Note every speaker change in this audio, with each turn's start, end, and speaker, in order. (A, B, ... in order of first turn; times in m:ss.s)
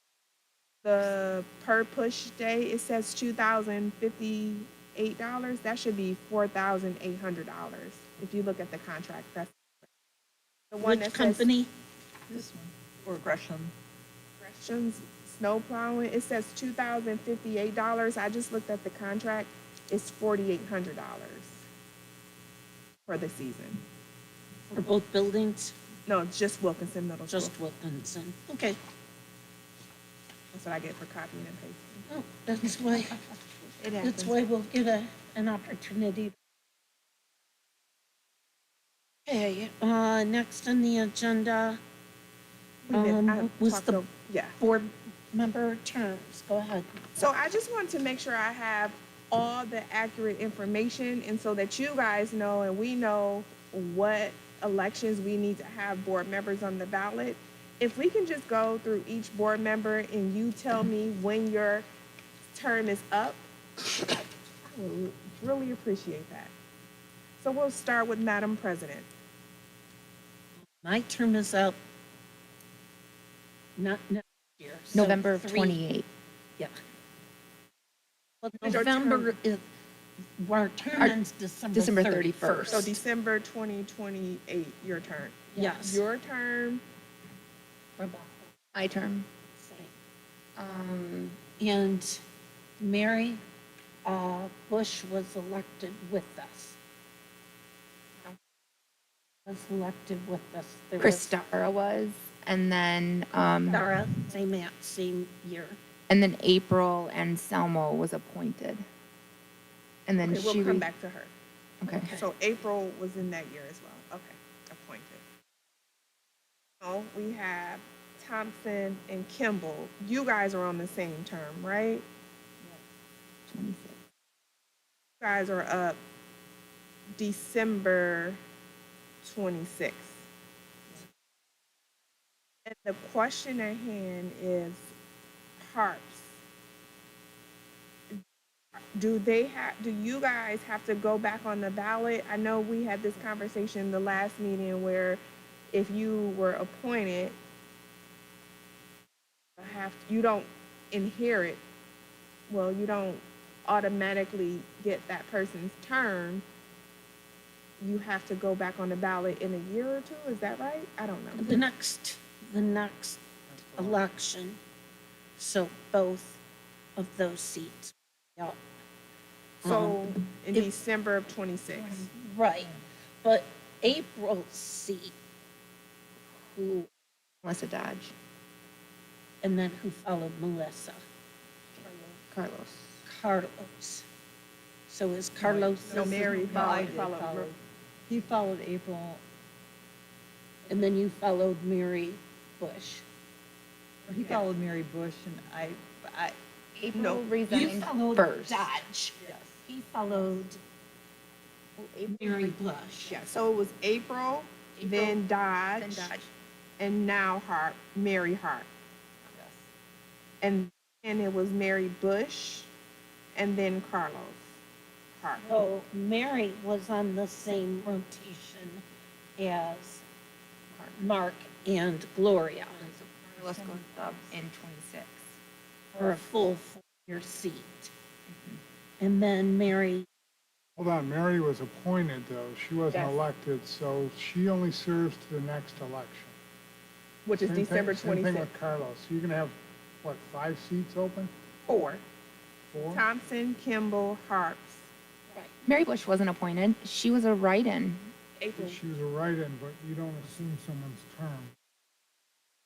0:00.8-0:09.5 A
0:10.7-0:11.5 A
0:10.8-0:11.7 B
0:12.3-0:13.7 C
0:14.4-0:21.6 A
0:23.1-0:23.8 A
0:24.7-0:25.8 B
0:26.0-0:27.5 A
0:27.3-0:28.8 B
0:30.5-0:32.0 A
0:32.1-0:33.2 B
0:33.8-0:34.3 D
0:34.0-0:36.3 B
0:39.3-0:41.8 B
0:42.8-0:44.6 A
0:42.9-0:44.0 B
0:44.6-0:47.1 B
0:47.2-1:01.8 A
1:02.5-1:03.4 A
1:04.2-1:06.5 A
1:07.4-1:09.1 A
1:10.8-1:11.8 B
1:13.8-1:15.8 B
1:14.9-1:16.1 D
1:18.4-1:19.6 B
1:18.6-1:19.3 A
1:18.6-1:19.2 D
1:20.4-1:23.0 B
1:21.7-1:22.9 D
1:22.7-1:26.8 A
1:25.5-1:26.0 B
1:28.0-1:28.5 B
1:28.7-1:29.3 D
1:29.6-1:29.9 B
1:30.6-1:31.4 D
1:31.6-1:32.2 B
1:32.8-1:33.4 B
1:34.0-1:36.8 B
1:39.4-1:41.4 B
1:41.0-1:43.8 D
1:43.7-1:45.8 B
1:46.1-1:48.8 D
1:50.1-1:50.9 D
1:50.2-1:51.3 A
1:51.8-1:52.1 D
1:52.0-1:52.3 B
1:52.1-1:55.2 A
1:56.8-2:02.0 A
2:03.5-2:04.0 D
2:05.2-2:06.0 A
2:07.2-2:08.4 A
2:09.2-2:10.2 A
2:12.6-2:14.9 A
2:15.6-2:16.3 A
2:18.9-2:25.2 A
2:25.7-2:27.3 A
2:29.6-2:31.6 A
2:32.5-2:36.4 A
2:37.8-2:41.6 A
2:41.3-2:43.2 B
2:43.7-2:44.6 B
2:45.4-2:46.4 B
2:47.0-2:48.6 B
2:49.6-2:50.7 B
2:49.6-2:52.1 A
2:51.8-2:55.1 B
2:56.4-2:56.9 B
2:57.4-2:58.1 D
2:59.4-3:01.0 B
3:01.7-3:02.2 B
3:02.3-3:03.0 D
3:03.0-3:04.0 B
3:04.9-3:06.7 B
3:05.4-3:09.2 C
3:05.9-3:07.5 A
3:10.7-3:13.0 B
3:14.1-3:16.4 C
3:16.8-3:18.7 D
3:16.9-3:17.2 A
3:17.5-3:20.6 B
3:19.2-3:19.6 C
3:21.8-3:22.6 D
3:22.1-3:23.1 B
3:23.1-3:26.1 A
3:24.8-3:25.2 D
3:25.7-3:26.3 D
3:26.8-3:28.7 A
3:30.4-3:32.7 A
3:33.3-3:34.4 A
3:35.2-3:35.5 A
3:35.4-3:38.8 B
3:39.4-3:40.0 B
3:40.9-3:42.9 B
3:42.8-3:45.4 D
3:43.4-3:44.3 C
3:45.9-3:47.9 B
3:48.3-3:48.6 D
3:49.0-3:50.0 B
3:50.8-3:56.4 E
3:57.2-3:58.5 A
3:57.4-4:01.3 E
4:01.7-4:02.0 A
4:02.7-4:03.0 E
4:02.9-4:04.9 A
4:05.6-4:08.1 D
4:08.4-4:08.8 A
4:08.6-4:11.5 E